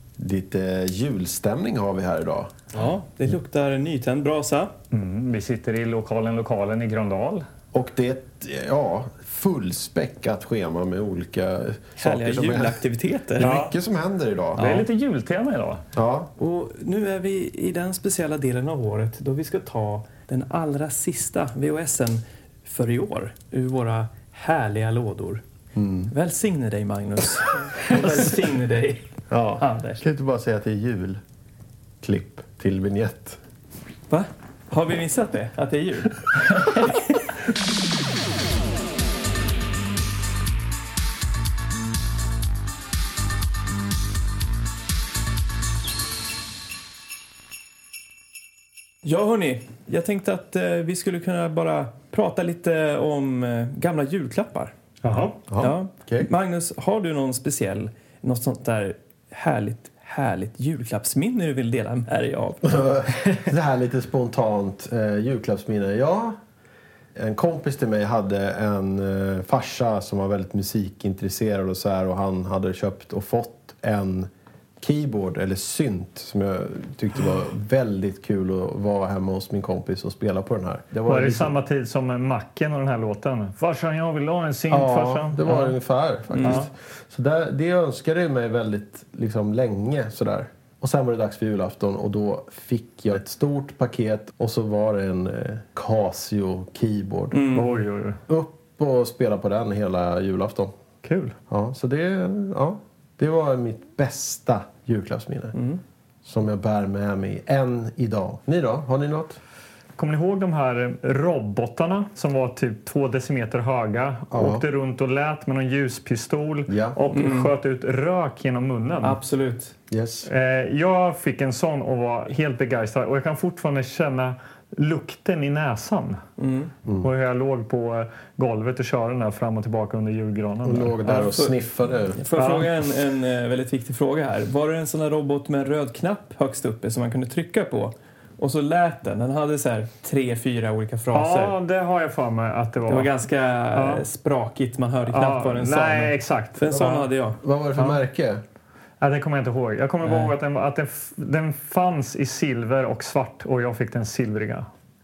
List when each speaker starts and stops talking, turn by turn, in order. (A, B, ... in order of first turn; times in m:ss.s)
0:00.2-0:02.7 A
0:02.7-0:04.7 B
0:04.9-0:07.5 C
0:07.7-0:12.8 A
0:12.0-0:13.5 B
0:13.4-0:14.8 A
0:13.4-0:13.7 C
0:14.6-0:14.8 B
0:14.6-0:15.8 C
0:15.9-0:16.3 A
0:16.4-0:25.4 B
0:25.8-0:26.1 A
0:26.1-0:29.1 B
0:29.3-0:31.2 A
0:29.6-0:30.0 B
0:32.0-0:33.4 A
0:34.1-0:37.2 B
0:49.0-0:54.7 B
0:55.0-0:55.4 C
0:55.5-0:56.3 A
0:55.6-1:02.8 B
1:02.6-1:06.4 A
1:07.2-1:14.3 A
1:14.8-1:21.6 A
1:21.1-1:25.8 C
1:24.7-1:37.5 A
1:26.3-1:26.6 B
1:26.4-1:26.7 C
1:37.3-1:37.7 B
1:37.5-1:38.2 C
1:38.3-1:40.7 A
1:41.0-1:41.4 C
1:41.5-1:45.6 A
1:45.6-1:45.8 B
1:46.2-1:49.4 A
1:50.0-1:59.2 C
1:54.3-1:54.6 A
1:56.7-1:57.0 A
1:57.1-1:57.5 B
1:59.0-1:59.7 B
1:59.9-2:00.3 A
2:00.3-2:06.2 C
2:06.4-2:06.7 B
2:07.0-2:11.0 C
2:10.6-2:12.2 A
2:11.0-2:11.6 B
2:12.2-2:21.6 B
2:12.4-2:12.7 C
2:21.1-2:23.1 C
2:22.9-2:27.4 B
2:23.7-2:24.0 C
2:25.1-2:27.1 C
2:27.4-2:28.4 A
2:29.0-2:34.7 C
2:30.0-2:30.3 B